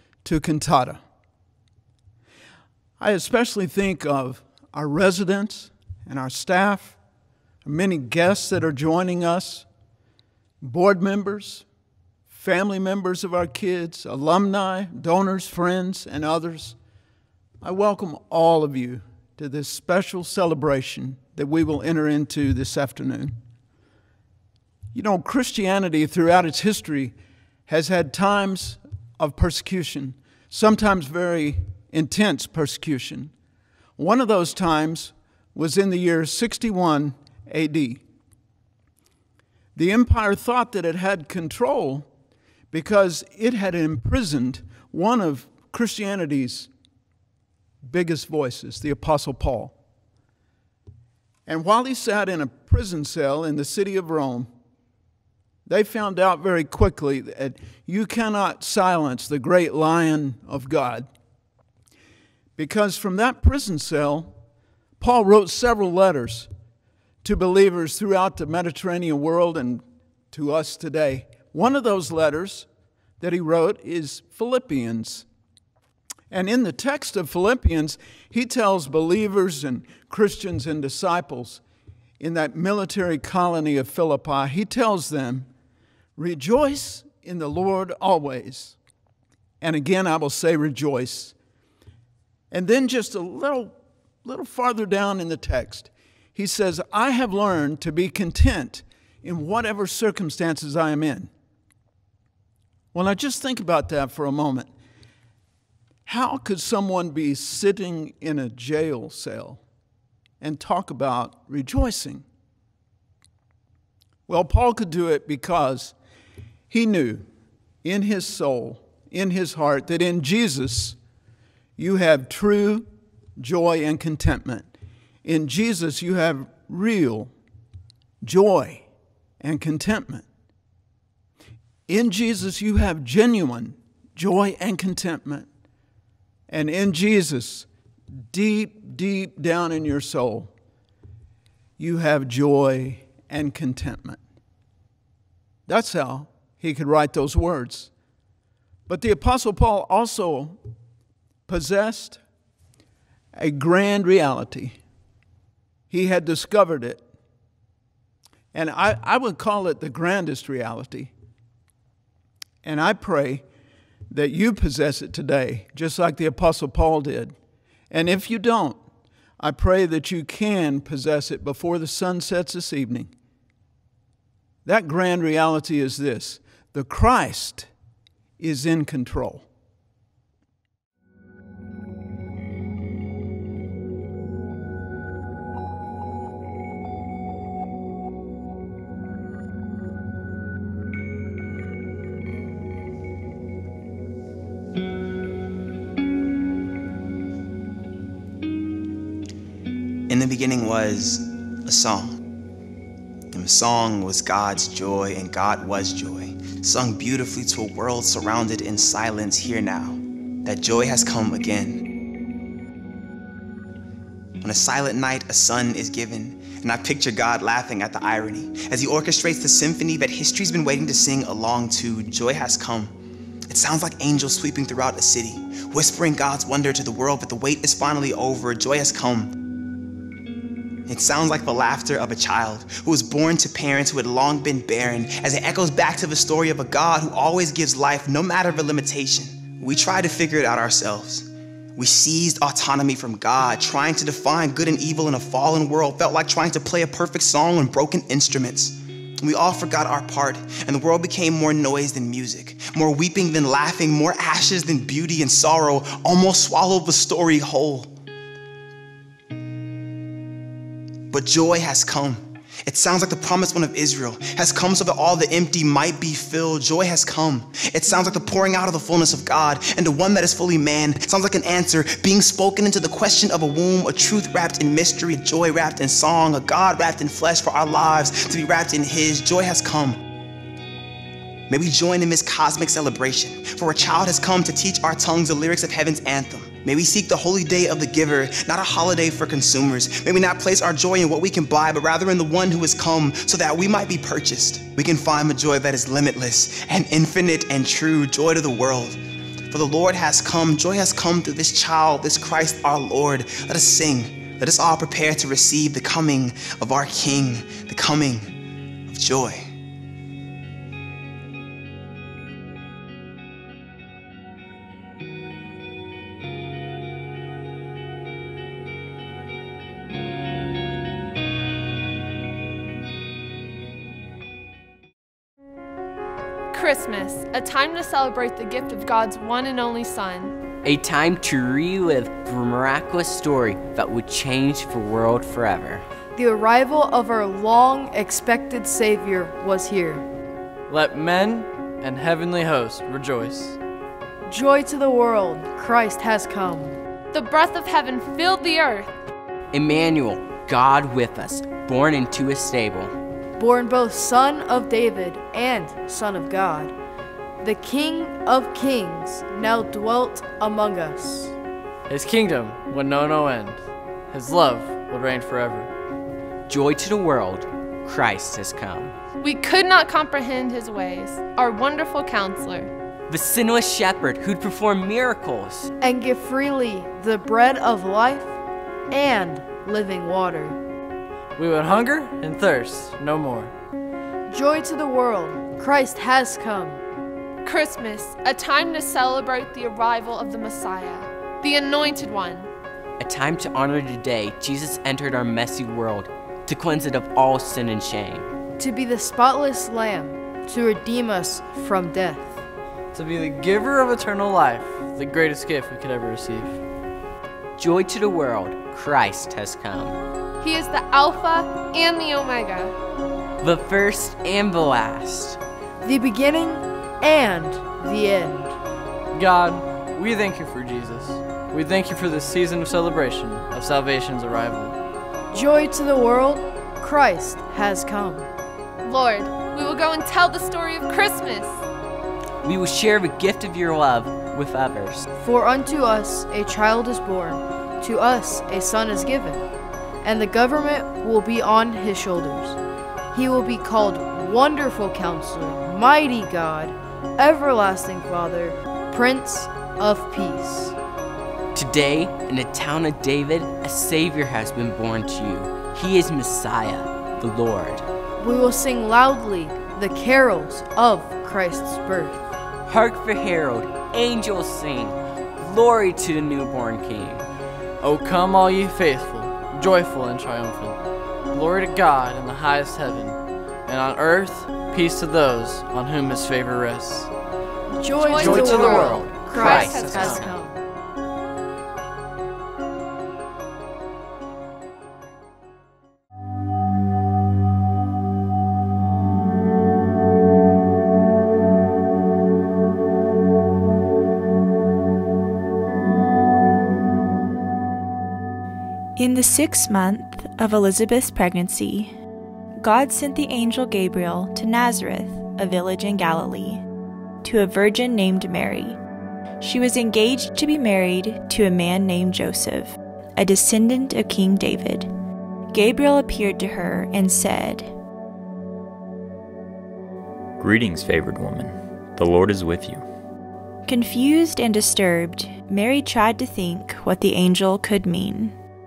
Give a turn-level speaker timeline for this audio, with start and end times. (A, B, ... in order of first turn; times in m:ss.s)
0:00.2-0:01.0 A
0:03.0-0:07.0 A
0:07.6-0:09.7 A
0:10.6-0:11.7 A
0:12.3-0:16.8 A
0:17.6-0:23.4 A
0:24.9-0:27.2 A
0:27.7-0:33.3 A
0:34.0-0:38.0 A
0:39.8-0:42.1 A
0:42.7-0:46.7 A
0:47.8-0:49.7 A
0:51.5-0:54.5 A
0:55.7-1:01.1 A
1:02.6-1:04.3 A
1:05.0-1:06.5 A
1:07.2-1:12.7 A
1:13.2-1:15.3 A
1:16.3-1:21.6 A
1:22.2-1:25.5 A
1:26.2-1:28.8 A
1:29.6-1:31.4 A
1:32.5-1:41.3 A
1:42.9-1:44.7 A
1:46.1-1:49.6 A
1:50.4-1:52.2 A
1:54.3-1:56.0 A
1:56.7-1:57.3 A
1:57.8-2:01.0 A
2:01.8-2:04.7 A
2:05.2-2:07.3 A
2:08.2-2:08.9 A
2:09.4-2:10.3 A
2:11.9-2:15.5 A
2:16.5-2:17.7 A
2:18.3-2:20.5 A
2:21.8-2:24.2 A
2:25.7-2:27.9 A
2:28.9-2:30.6 A
2:31.5-2:32.2 A
2:33.4-2:34.8 A
2:35.9-2:37.0 A
2:38.5-2:41.1 A
2:42.6-2:43.4 A
2:44.1-2:47.4 A
2:47.9-2:48.8 A
2:49.4-2:53.1 A
2:54.6-2:57.7 A
2:58.4-2:59.5 A
3:20.1-3:22.2 B
3:23.3-3:31.8 B
3:34.4-3:43.0 B
3:43.5-3:49.4 B
3:50.9-4:17.9 B
4:21.1-4:40.0 B
4:41.5-5:09.5 B
5:26.5-5:30.3 C
5:30.6-5:35.8 D
5:36.2-5:40.1 E
5:40.7-5:43.6 F
5:44.3-5:46.8 E
5:47.1-5:48.9 C
5:49.5-5:53.0 D
5:53.4-5:56.8 E
5:57.4-6:01.3 E
6:01.9-6:05.7 F
6:06.5-6:09.0 D
6:09.2-6:12.7 C
6:13.1-6:15.7 D
6:15.8-6:18.4 E
6:18.9-6:20.6 E
6:21.4-6:23.5 F
6:24.3-6:26.8 E
6:27.4-6:32.5 C
6:33.0-6:38.3 D
6:38.6-6:42.4 E
6:42.9-6:46.6 F
6:47.6-6:50.0 D
6:50.4-6:52.7 C
6:53.4-6:55.4 D
6:55.8-6:58.6 E
6:59.1-7:04.8 F
7:05.3-7:08.3 E
7:08.8-7:11.6 C
7:12.4-7:15.0 D
7:15.2-7:19.4 E
7:20.0-7:22.6 E
7:23.1-7:30.8 E
7:31.5-7:37.9 D
7:38.2-7:42.2 E
7:42.7-7:47.3 D
7:47.8-7:50.8 F
7:51.3-7:57.1 F
7:57.8-8:00.6 E
7:58.0-8:00.3 C
7:58.2-8:00.3 D
7:58.2-8:00.3 F
8:19.0-8:21.9 G
8:22.6-8:26.6 G
8:27.2-8:28.8 G
8:29.4-8:34.9 G
8:35.5-8:37.7 G
8:40.4-8:42.8 H
8:43.7-8:48.4 G